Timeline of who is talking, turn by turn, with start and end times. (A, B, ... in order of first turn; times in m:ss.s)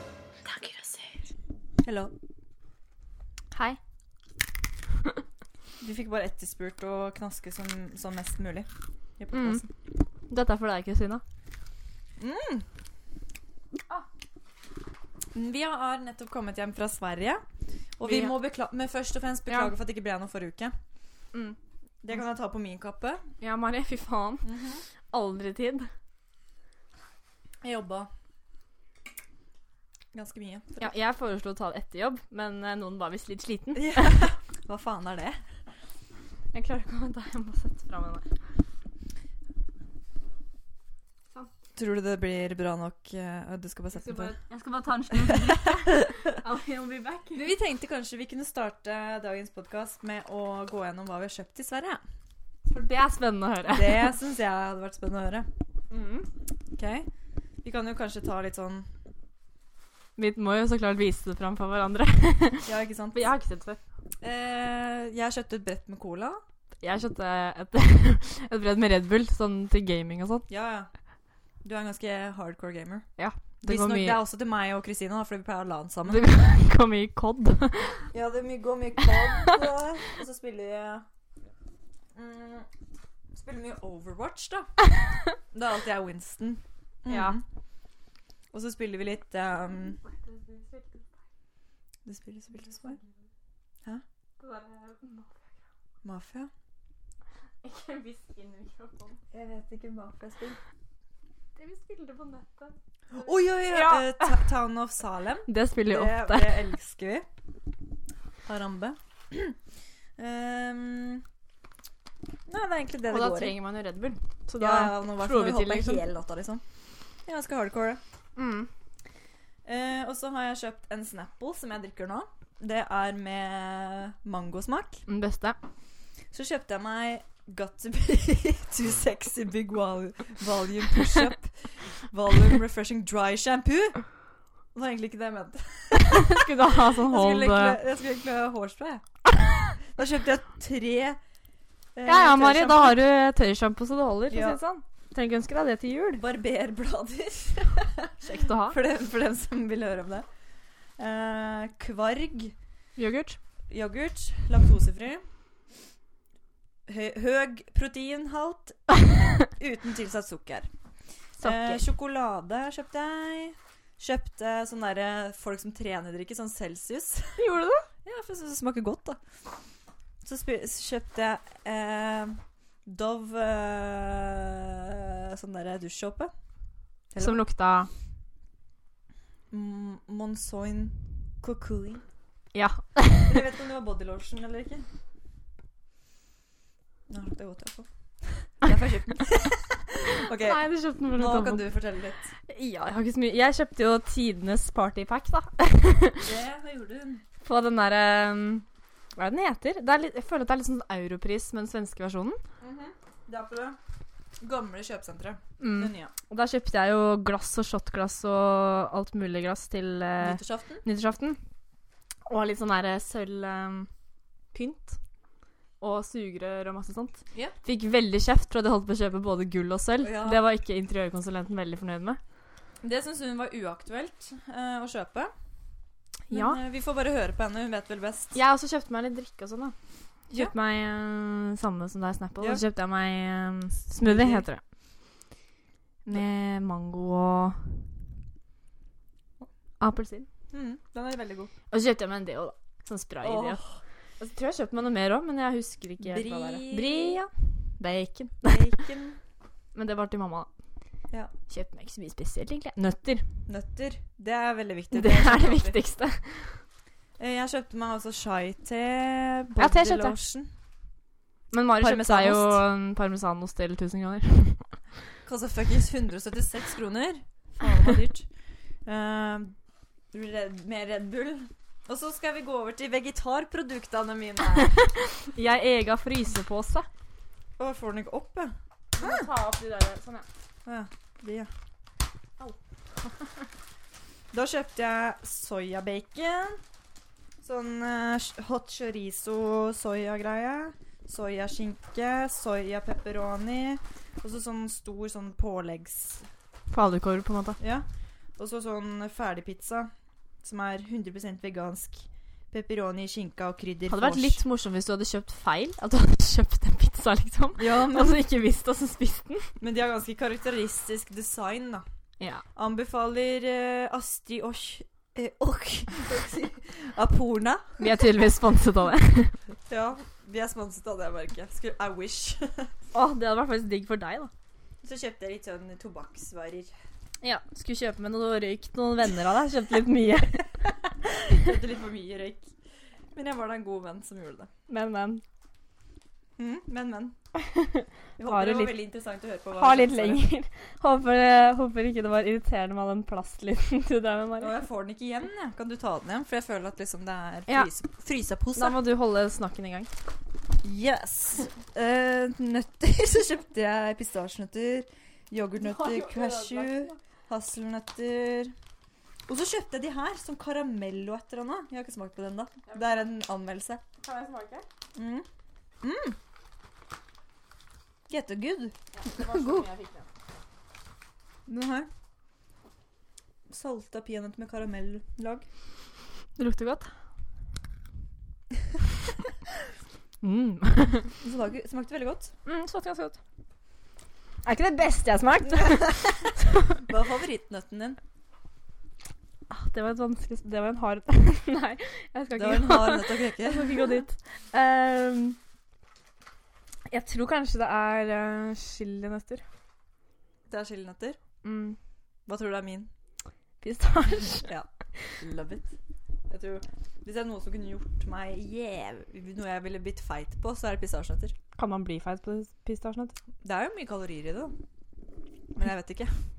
0:00.4-0:01.0 A
0:01.8-0:02.1 A
0:03.5-0:03.8 B
0:05.8-0:09.7 A
0:09.3-0:09.6 B
0:10.3-0:11.2 B
0:12.2-0:12.7 A
0:15.3-0:17.4 A
0:18.0-0:20.7 A
0:18.0-0:18.4 B
0:19.5-0:19.7 B
0:22.0-0:23.2 A
0:23.4-0:24.5 B
0:24.4-0:24.8 A
0:25.1-0:25.9 B
0:27.6-0:28.1 A
0:30.1-0:30.9 A
0:30.8-0:34.3 B
0:33.7-0:35.4 A
0:36.5-0:38.3 B
0:41.8-0:44.3 A
0:43.9-0:47.5 B
0:45.1-0:46.1 A
0:47.3-0:52.0 A
0:52.7-0:54.1 B
0:53.7-0:55.5 A
0:55.9-0:56.3 B
0:56.7-0:57.1 A
0:57.6-0:58.9 A
1:00.2-1:03.8 B
1:02.6-1:03.3 A
1:04.2-1:06.4 A
1:06.8-1:10.4 B
1:10.5-1:10.9 A
1:11.6-1:13.0 A
1:13.2-1:14.2 B
1:13.6-1:16.2 A
1:16.0-1:18.0 B
1:18.1-1:21.0 A
1:19.0-1:19.6 B
1:22.1-1:22.7 A
1:23.3-1:24.7 A
1:25.5-1:27.4 A
1:27.1-1:27.4 B
1:28.5-1:30.0 A
1:30.0-1:31.1 B
1:32.0-1:33.0 A
1:32.6-1:33.2 B
1:34.4-1:35.5 B
1:36.0-1:36.5 A
1:37.6-1:39.2 B
1:39.3-1:40.6 A
1:41.6-1:42.8 B
1:43.1-1:47.2 A
1:43.6-1:44.4 B
1:45.4-1:46.6 B
1:48.4-1:49.6 A
1:50.2-1:51.2 A
1:52.4-1:53.5 A
1:53.1-1:56.0 B
1:54.6-1:56.6 A
1:57.2-1:58.0 A
1:58.4-1:58.7 B
1:59.6-2:05.0 A
2:05.1-2:05.6 B
2:06.3-2:14.0 A
2:14.7-2:19.0 A
2:16.0-2:17.8 B
2:19.8-2:21.2 A
2:22.0-2:23.0 A
2:22.0-2:26.2 B
2:24.3-2:24.6 A
2:26.2-2:30.2 A
2:28.2-2:28.8 B
2:31.0-2:32.5 A
2:33.0-2:33.4 B
2:33.7-2:35.2 A
2:36.8-2:40.7 A
2:41.4-2:41.8 B
2:41.4-2:47.4 A
2:47.4-2:47.9 B
2:48.0-2:49.2 A
2:50.2-2:56.3 A
2:57.1-2:57.4 A
2:57.2-2:57.9 B
2:59.5-3:02.0 A
3:02.5-3:03.4 B
3:03.2-3:04.8 A
3:07.1-3:10.6 A
3:10.1-3:11.6 B
3:11.1-3:12.3 A
3:12.5-3:16.3 B
3:16.2-3:17.2 A
3:17.4-3:18.6 B
3:19.2-3:22.4 B
3:22.6-3:23.8 A
3:24.4-3:26.1 A
3:25.6-3:31.4 B
3:30.2-3:30.8 A
3:32.3-3:33.9 B
3:34.5-3:35.0 B
3:35.8-3:42.2 B
3:40.0-3:40.4 A
3:42.8-3:45.3 A
3:46.3-3:46.6 B
3:46.3-3:48.4 A
3:48.3-3:49.7 B
3:50.3-3:54.6 B
3:54.0-3:54.5 A
3:56.0-3:57.7 B
3:59.8-4:00.3 B
4:00.5-4:01.5 A
4:01.7-4:03.6 B
4:03.2-4:03.8 A
4:04.2-4:08.8 B
4:06.0-4:07.2 A
4:08.4-4:09.2 A
4:09.7-4:10.5 B
4:11.5-4:13.2 B
4:13.5-4:15.8 A
4:14.9-4:16.6 B
4:17.2-4:20.5 A
4:19.6-4:20.2 B
4:21.5-4:24.8 B
4:21.8-4:22.6 A
4:25.2-4:28.3 A
4:28.8-4:29.5 A
4:30.1-4:34.8 A
4:34.5-4:36.9 B
4:37.6-4:39.3 A
4:39.0-4:40.2 B
4:40.6-4:41.5 A
4:44.3-4:46.6 A
4:47.4-4:56.3 A
4:56.7-4:57.6 B
4:57.6-4:59.9 A
5:00.4-5:04.4 A
5:03.9-5:09.5 B
5:07.6-5:08.2 A
5:09.6-5:11.8 A
5:12.6-5:17.8 A
5:17.8-5:19.4 B
5:19.7-5:22.7 A
5:22.9-5:24.3 B
5:24.8-5:26.7 A
5:27.2-5:30.4 B
5:31.0-5:32.5 A
5:33.1-5:34.5 A
5:34.7-5:35.2 B
5:36.4-5:37.2 A
5:37.4-5:38.7 B
5:38.2-5:40.2 A
5:39.5-5:44.5 B
5:44.4-5:48.8 A
5:48.5-5:49.9 B
5:50.6-5:58.5 A
5:55.6-5:57.0 B
5:59.3-6:03.8 A
6:02.7-6:03.0 B
6:04.0-6:04.6 B
6:04.9-6:05.2 A
6:05.8-6:06.2 A
6:08.1-6:09.7 A
6:08.9-6:10.1 B
6:11.4-6:11.9 A
6:13.5-6:15.4 A
6:16.4-6:16.9 B
6:20.2-6:21.1 B
6:21.2-6:22.3 A
6:22.4-6:23.2 B
6:24.4-6:26.9 B
6:25.5-6:28.0 A
6:29.5-6:35.4 B
6:32.3-6:34.0 A
6:36.9-6:39.4 B
6:40.5-6:41.2 A
6:41.4-6:41.8 B
6:42.3-6:42.9 A
6:43.6-6:44.5 B
6:45.2-6:45.7 A
6:46.3-6:51.3 A
6:51.6-6:53.2 B
6:53.4-6:54.5 A
6:55.5-6:56.2 A